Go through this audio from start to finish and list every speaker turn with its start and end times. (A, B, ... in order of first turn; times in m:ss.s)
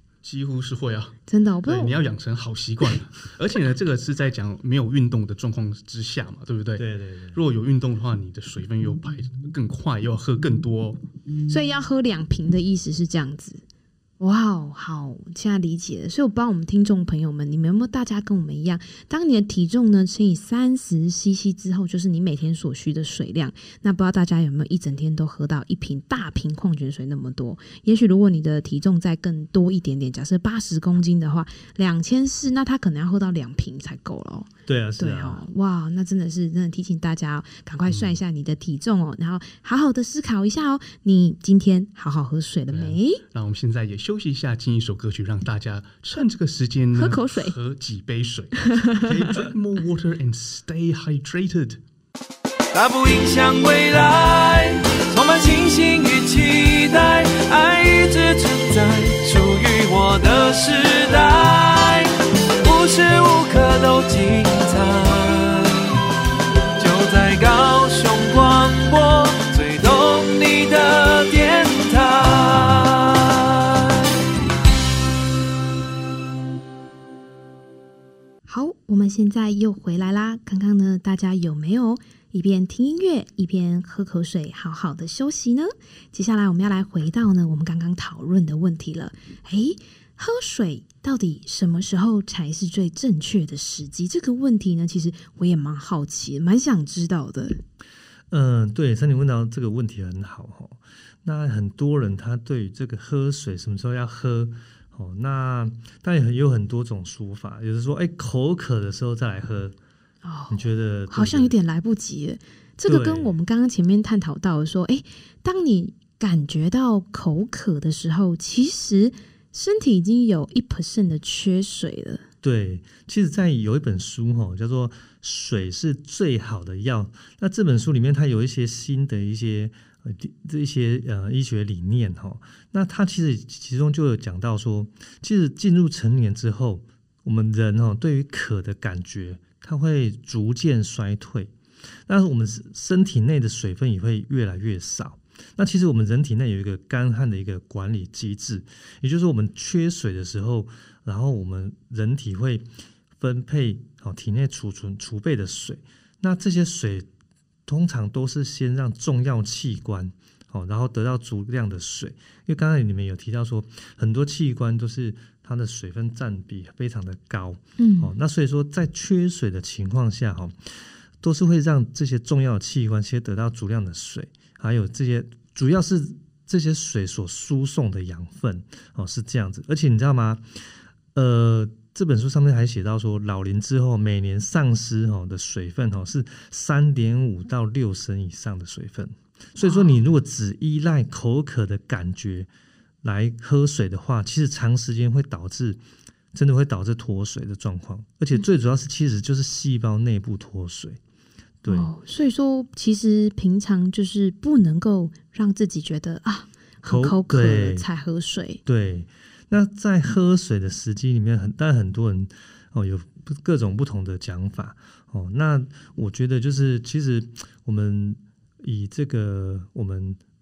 0:00.2-0:11.0 A
0:01.3-0:01.9 B
0:06.8-0:07.4 C
0:11.5-0:13.6 B
0:14.2-0:43.2 B
0:34.7-0:35.4 C
0:37.9-0:38.2 A
0:42.7-0:51.8 A
0:47.0-0:47.6 B
0:48.6-0:49.3 B
0:52.7-1:05.9 D
1:06.8-1:13.6 D
1:18.5-1:37.6 B
1:38.3-1:49.8 C
1:50.2-2:02.2 B
1:50.5-1:51.5 C
1:52.9-1:53.4 C
2:02.4-2:21.5 C
2:22.1-2:32.7 C
2:33.2-2:37.1 C
2:37.7-3:00.6 C
2:47.8-2:48.1 B
3:01.2-3:12.5 C
3:09.6-3:10.0 B
3:13.0-3:15.8 C
3:16.3-3:21.0 C
3:21.6-3:21.9 C
3:21.7-3:28.6 B
3:26.8-3:27.9 C
3:28.7-3:40.2 C